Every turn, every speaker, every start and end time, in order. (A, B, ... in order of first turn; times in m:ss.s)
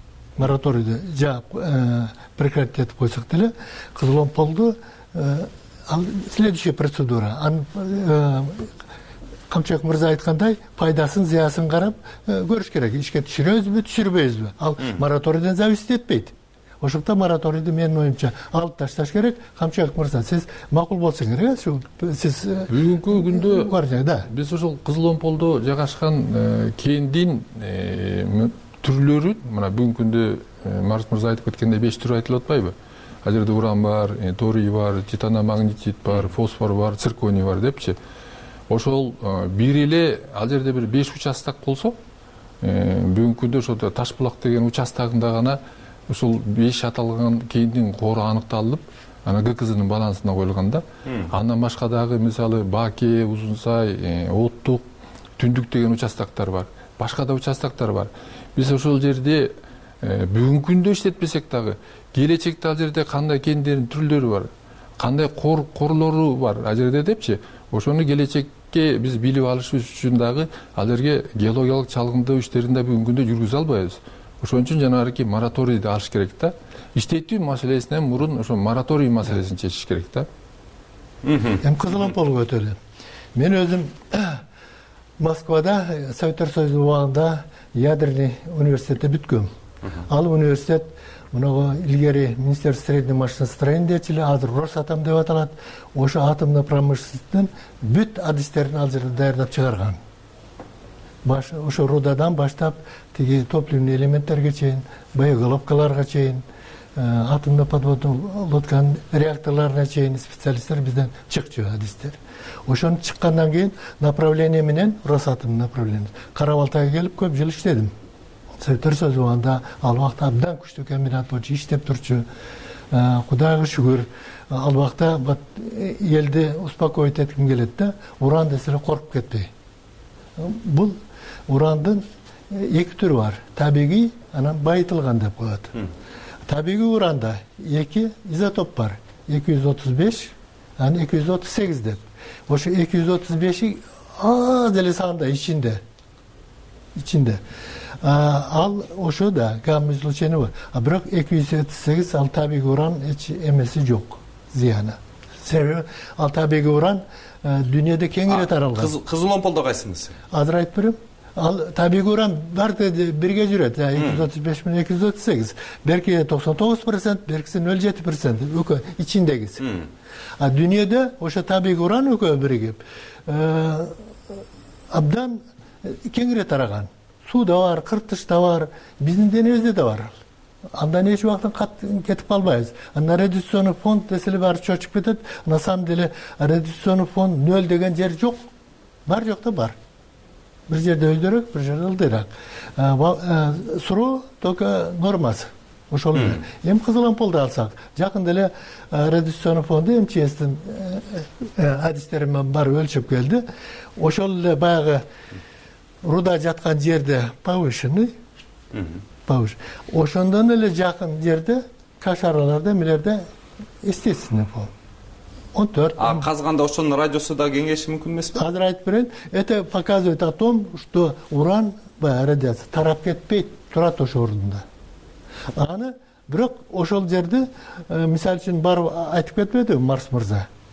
0:00.4-0:08.7 A
0:09.5-0:24.3 A
0:22.7-0:23.7 B
0:24.3-0:38.0 B
0:38.7-0:42.0 B
0:42.6-0:54.8 B
0:55.4-1:20.3 B
1:21.2-1:21.6 C
1:21.6-1:22.8 A
1:23.4-1:24.4 A
1:25.2-1:29.5 A
1:30.1-1:40.0 A
1:41.2-1:46.4 A
1:47.0-1:57.9 A
1:58.6-2:02.3 A
2:02.9-2:09.5 A
2:10.4-2:11.0 A
2:11.5-2:15.8 A
2:16.5-2:25.8 A
2:27.0-2:27.4 A
2:28.0-2:38.9 A
2:38.3-2:40.1 C
2:40.3-2:49.6 A
2:44.0-2:44.2 C
2:50.4-2:54.4 A
2:54.9-3:00.1 A
3:00.7-3:08.4 A
3:09.1-3:09.8 A
3:10.7-3:23.4 A
3:24.0-3:25.0 A
3:26.0-3:28.1 A
3:29.3-3:33.3 A
3:33.8-3:34.7 A
3:35.5-3:36.3 A
3:36.0-3:38.4 C
3:38.4-3:44.6 A
3:45.6-3:50.5 A